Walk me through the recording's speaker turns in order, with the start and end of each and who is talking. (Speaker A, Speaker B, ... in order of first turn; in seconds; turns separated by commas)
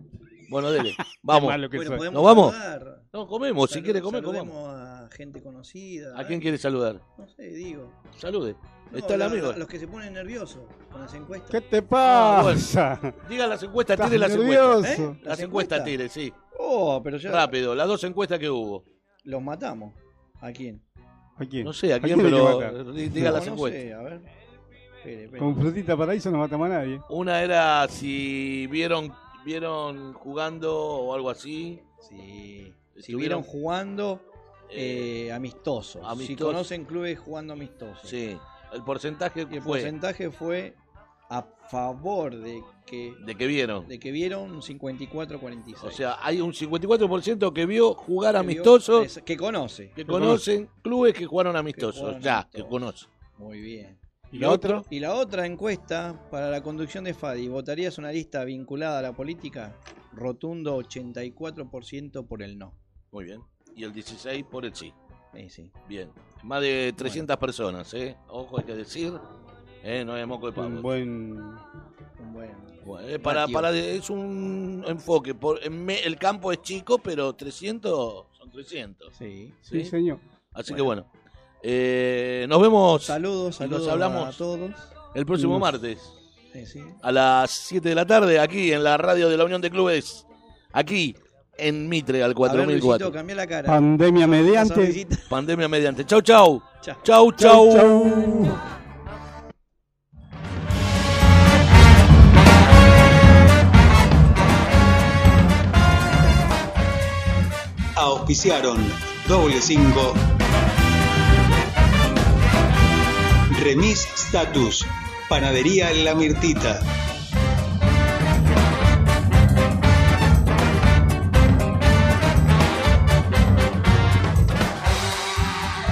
Speaker A: 0.5-2.5, Speaker B: 1.3-2.0, Speaker C: 1.7-3.1, Speaker A: 3.1-4.5, Speaker C: 3.7-6.5, Speaker A: 6.1-7.0, Speaker C: 7.2-8.0, Speaker A: 8.2-9.6, Speaker C: 8.9-11.6, Speaker B: 11.5-13.1, Speaker A: 12.0-16.3, Speaker B: 14.0-15.2, Speaker C: 14.8-15.9, Speaker C: 16.5-17.5, Speaker A: 17.2-18.8, Speaker C: 19.2-20.8, Speaker B: 21.4-23.3, Speaker A: 21.6-23.8, Speaker C: 23.1-24.3, Speaker C: 25.0-25.6, Speaker B: 25.4-27.0, Speaker A: 27.1-31.8, Speaker C: 32.0-38.2, Speaker A: 32.9-33.5, Speaker A: 34.7-35.1, Speaker A: 36.0-36.6, Speaker A: 38.0-39.9, Speaker C: 39.5-40.8, Speaker C: 41.3-43.2, Speaker A: 43.2-43.9, Speaker C: 43.8-46.0, Speaker A: 45.8-49.1, Speaker C: 48.3-49.9, Speaker A: 50.0-53.1, Speaker B: 50.1-50.4, Speaker C: 51.7-52.8, Speaker C: 53.4-62.8, Speaker B: 54.3-54.8, Speaker A: 54.4-54.8, Speaker A: 63.1-64.9, Speaker C: 65.3-65.7, Speaker A: 65.8-69.2, Speaker C: 67.0-67.2, Speaker A: 69.8-70.9, Speaker B: 70.6-71.6, Speaker C: 72.2-73.7, Speaker A: 72.8-79.1, Speaker C: 79.1-79.6, Speaker A: 79.7-79.9, Speaker B: 79.7-80.2, Speaker A: 80.5-81.1, Speaker A: 81.6-84.4, Speaker C: 83.0-84.9, Speaker A: 85.1-86.1, Speaker B: 85.4-85.7, Speaker C: 86.5-87.0, Speaker A: 87.0-93.1, Speaker C: 92.4-95.2, Speaker B: 93.7-95.0, Speaker A: 95.3-98.1, Speaker B: 97.4-98.6, Speaker D: 108.0-110.2, Speaker D: 113.5-116.9